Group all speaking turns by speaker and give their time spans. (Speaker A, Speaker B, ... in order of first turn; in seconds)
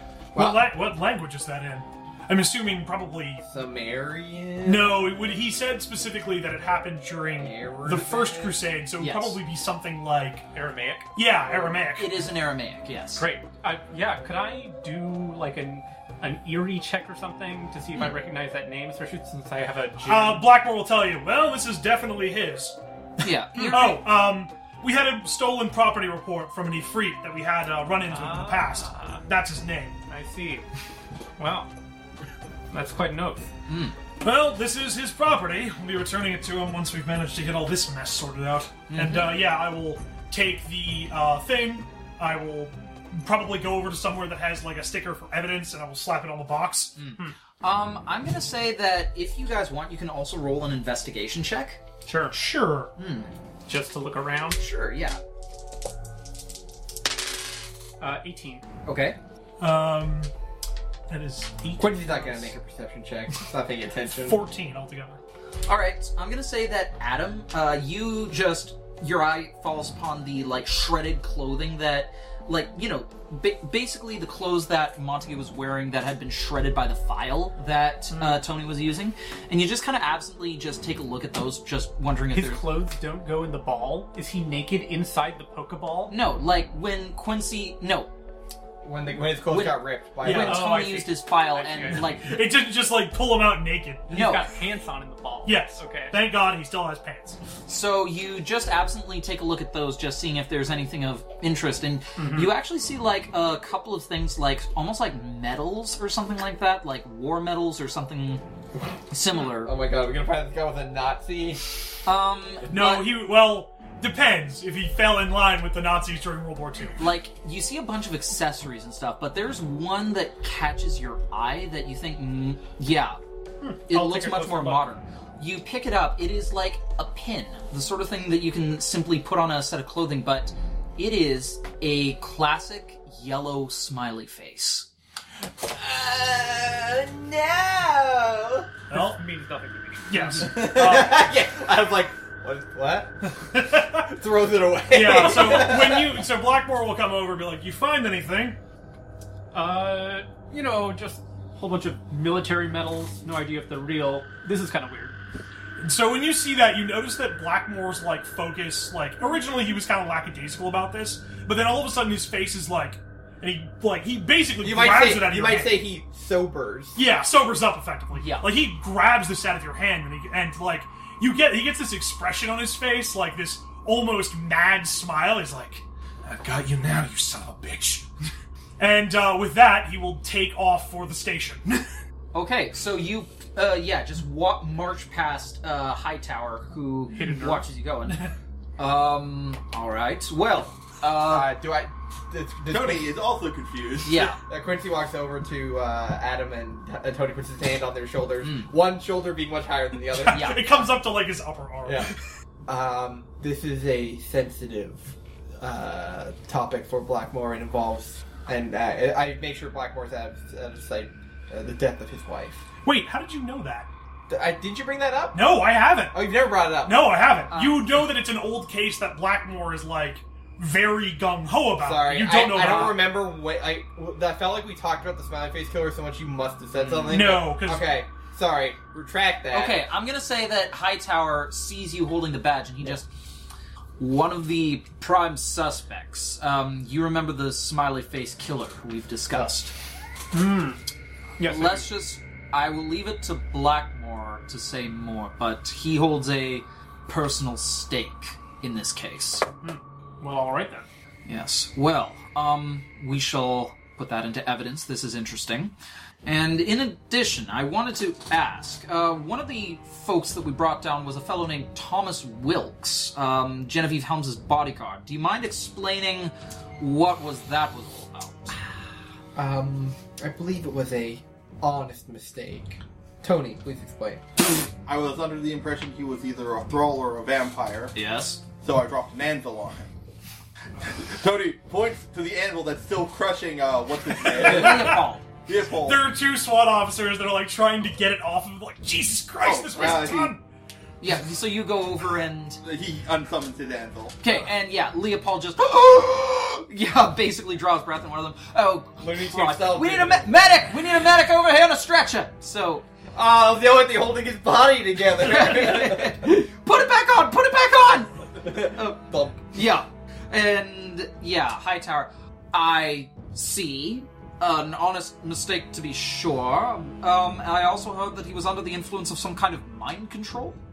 Speaker A: 0.3-0.6, 3.5-5.2, 7.4-8.6, 61.8-64.4, 88.8-90.8, 109.4-111.7, 135.6-138.7, 140.4-143.1, 144.0-146.2, 164.6-167.0, 191.2-193.1, 194.4-200.8, 201.9-202.1, 202.7-212.7, 214.3-215.6, 216.1-217.1, 221.8-229.8, 269.4-274.2, 299.0-300.4, 303.1-306.2, 308.4-309.5
Speaker B: 0.3-3.4, 4.6-10.5, 11.2-12.2, 20.1-22.8, 23.6-30.0, 34.2-47.0, 59.6-60.3, 61.1-62.5, 64.2-65.2, 90.2-91.0, 91.9-94.2, 95.5-97.4, 112.7-117.0, 138.9-139.2, 140.1-141.3, 143.3-144.1, 144.9-148.6, 155.8-165.9, 167.0-178.1, 178.8-181.8, 187.2-187.6, 200.1-202.2, 212.8-213.9, 215.3-216.2, 216.8-223.1, 227.1-227.9, 284.2-285.0, 285.7-290.4
Speaker C: 9.0-9.4, 11.9-13.3, 23.2-24.1, 33.7-34.0, 38.9-39.4, 47.0-51.8, 53.0-53.3, 54.6-55.2, 58.9-59.2, 65.7-82.7, 86.1-88.1, 89.5-92.4, 94.1-94.5, 97.7-108.4, 109.1-109.7, 112.0-113.1, 117.0-123.2, 123.9-134.9, 168.1-168.5, 182.3-191.5, 194.1-194.4, 198.4-198.7, 200.3-200.7, 217.5-218.0, 222.5-223.0, 226.8-227.3, 229.5-233.1, 234.0-239.7, 241.4-249.4, 251.3-255.7, 256.3-268.6, 277.9-278.4, 284.3-285.2, 291.0-292.6, 294.2-302.9, 305.2-320.6
Speaker D: 10.5-11.1, 13.2-20.5, 28.1-29.2, 30.1-30.6, 31.4-31.7, 32.7-33.5, 52.0-52.9, 53.7-54.6, 58.0-58.6, 82.3-86.2, 90.5-92.1, 94.1-96.2, 102.2-102.5, 123.6-124.8, 138.9-140.4, 149.5-155.2, 187.2-187.6, 240.3-240.8, 241.4-241.9, 249.6-250.9
Speaker E: 192.7-194.3, 274.9-277.9, 278.6-279.9, 280.9-286.0, 289.4-290.4, 292.6-294.2